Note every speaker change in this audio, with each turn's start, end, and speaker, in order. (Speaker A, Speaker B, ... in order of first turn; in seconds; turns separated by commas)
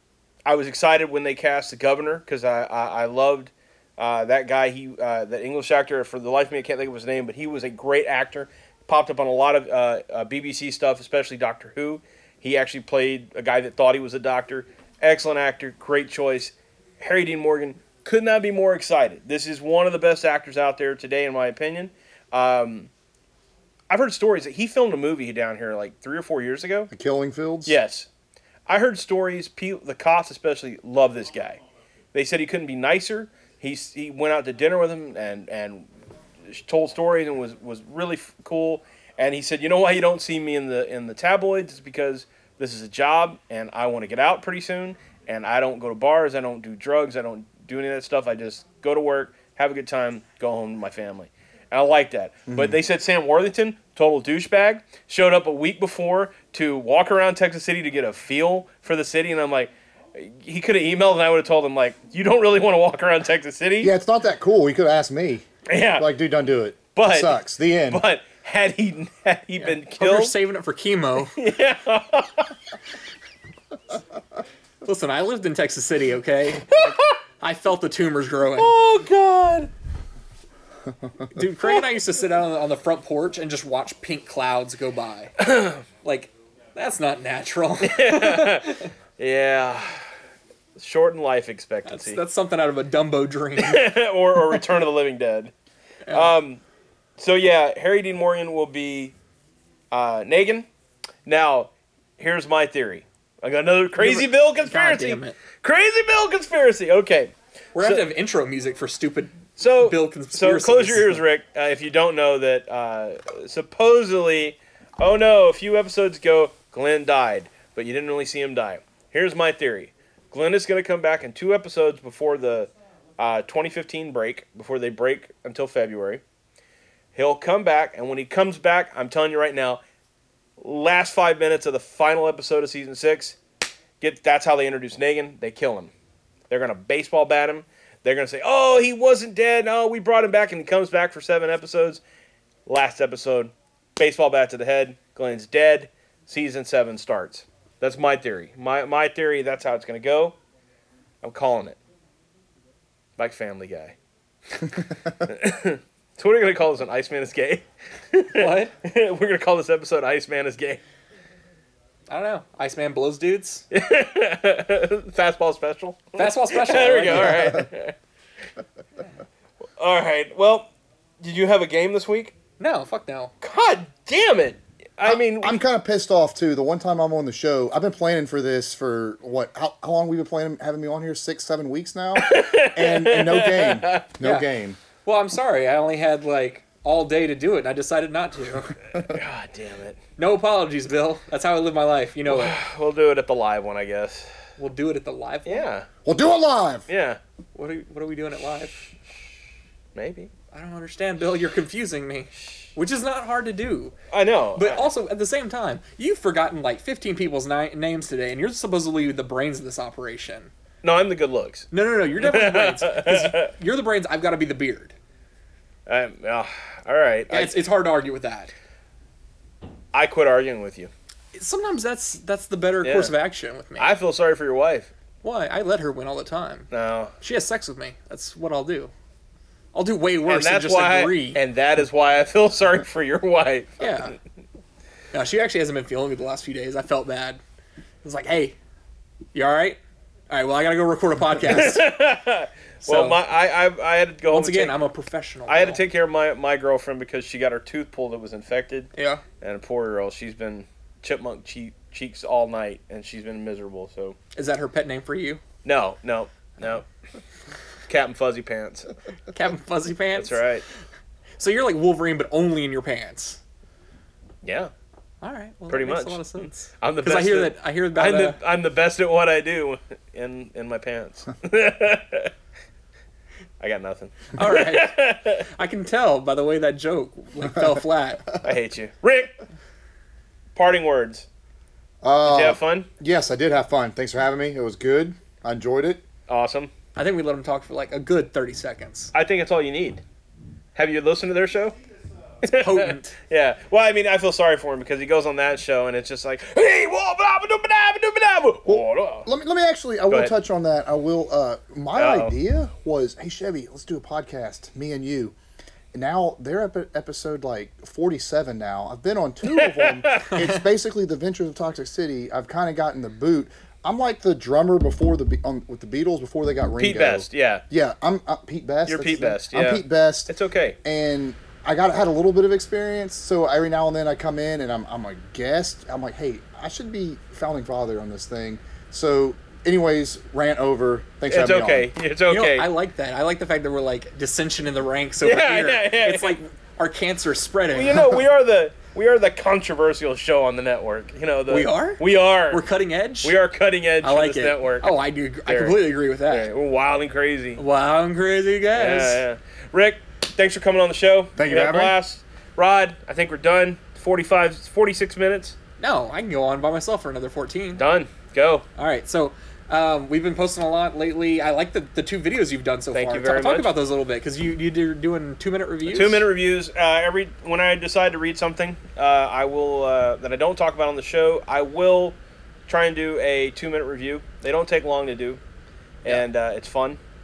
Speaker A: 0.4-22.9, Speaker A: 23.9-26.9, Speaker B: 26.9-27.8, Speaker A: 27.6-28.1, Speaker A: 28.7-31.6, Speaker A: 32.1-35.9, Speaker A: 36.5-63.9, Speaker B: 52.5-52.8, Speaker B: 63.8-68.0, Speaker A: 65.7-66.2, Speaker A: 66.9-70.3, Speaker C: 69.6-71.3, Speaker A: 71.3-72.5, Speaker C: 74.8-78.7, Speaker A: 76.7-77.2, Speaker A: 78.6-79.7, Speaker C: 81.3-85.4, Speaker A: 85.4-85.8, Speaker C: 86.0-88.9, Speaker A: 87.8-90.0, Speaker A: 90.8-92.2, Speaker C: 91.8-93.9, Speaker A: 93.6-95.5, Speaker C: 96.1-96.3, Speaker A: 96.1-96.6, Speaker A: 97.2-99.1, Speaker A: 99.9-100.7, Speaker A: 101.2-108.0, Speaker C: 104.0-105.4, Speaker C: 107.7-111.2, Speaker A: 109.6-126.2, Speaker A: 127.1-129.8, Speaker A: 130.6-133.4, Speaker A: 134.0-135.9, Speaker A: 136.5-142.0, Speaker A: 142.7-150.4, Speaker A: 151.2-151.8, Speaker A: 153.2-153.9, Speaker A: 155.2-160.8, Speaker C: 158.3-158.7, Speaker C: 162.1-163.6, Speaker A: 163.7-167.9, Speaker C: 166.2-167.6, Speaker A: 169.8-170.7, Speaker A: 171.2-172.3, Speaker C: 172.6-173.3, Speaker A: 173.4-175.6, Speaker B: 175.0-184.8, Speaker A: 182.2-184.1, Speaker C: 184.2-184.5, Speaker C: 185.0-188.8, Speaker A: 189.0-190.0, Speaker C: 190.2-192.6, Speaker A: 192.3-194.3, Speaker C: 194.6-195.7, Speaker A: 195.4-195.9, Speaker B: 196.0-196.8, Speaker A: 196.9-197.2, Speaker C: 197.5-198.8, Speaker A: 199.9-200.3, Speaker C: 200.5-203.9, Speaker A: 204.1-204.9, Speaker C: 204.6-210.5, Speaker A: 210.8-213.5, Speaker C: 211.7-214.9, Speaker A: 215.9-217.5, Speaker C: 217.3-218.5, Speaker A: 219.9-220.9, Speaker C: 221.3-223.9, Speaker A: 222.8-223.1, Speaker A: 223.8-224.9, Speaker C: 225.2-226.7, Speaker A: 226.7-227.1, Speaker C: 227.2-228.9, Speaker C: 229.7-231.4, Speaker A: 230.2-233.9, Speaker C: 233.8-234.2, Speaker C: 235.1-237.4, Speaker C: 238.0-238.6, Speaker C: 239.3-239.8, Speaker C: 240.3-241.8, Speaker A: 241.5-244.8, Speaker C: 242.8-243.2, Speaker C: 244.3-245.8, Speaker A: 245.5-254.2, Speaker C: 248.9-249.2, Speaker C: 254.3-255.4, Speaker A: 255.6-256.8, Speaker A: 257.9-258.9, Speaker C: 259.3-260.4, Speaker A: 260.1-260.6, Speaker C: 261.4-263.4, Speaker A: 264.4-264.7, Speaker C: 265.2-268.4, Speaker A: 265.7-272.3, Speaker A: 273.6-275.4, Speaker C: 274.4-278.2, Speaker A: 278.4-279.3, Speaker A: 280.5-281.2, Speaker B: 282.0-286.0, Speaker A: 282.2-282.9, Speaker A: 286.3-286.7, Speaker C: 286.9-289.1, Speaker A: 289.1-290.0, Speaker A: 290.7-291.8, Speaker A: 292.4-299.3, Speaker C: 292.5-293.1, Speaker B: 298.6-305.3, Speaker A: 301.9-302.4, Speaker B: 305.9-320.3, Speaker A: 309.5-310.3, Speaker A: 316.8-317.6, Speaker A: 318.9-320.8, Speaker B: 320.8-331.9, Speaker A: 331.3-332.7, Speaker C: 332.3-338.2, Speaker A: 335.2-336.4, Speaker A: 337.7-342.6, Speaker C: 341.5-343.4, Speaker A: 343.2-347.6, Speaker C: 344.0-346.5, Speaker C: 347.6-349.2, Speaker A: 348.7-355.6, Speaker B: 351.4-351.9, Speaker C: 355.8-357.8, Speaker A: 357.8-358.6, Speaker C: 358.8-366.2, Speaker A: 362.9-363.7, Speaker A: 365.9-372.1, Speaker A: 372.7-375.4, Speaker A: 376.0-377.0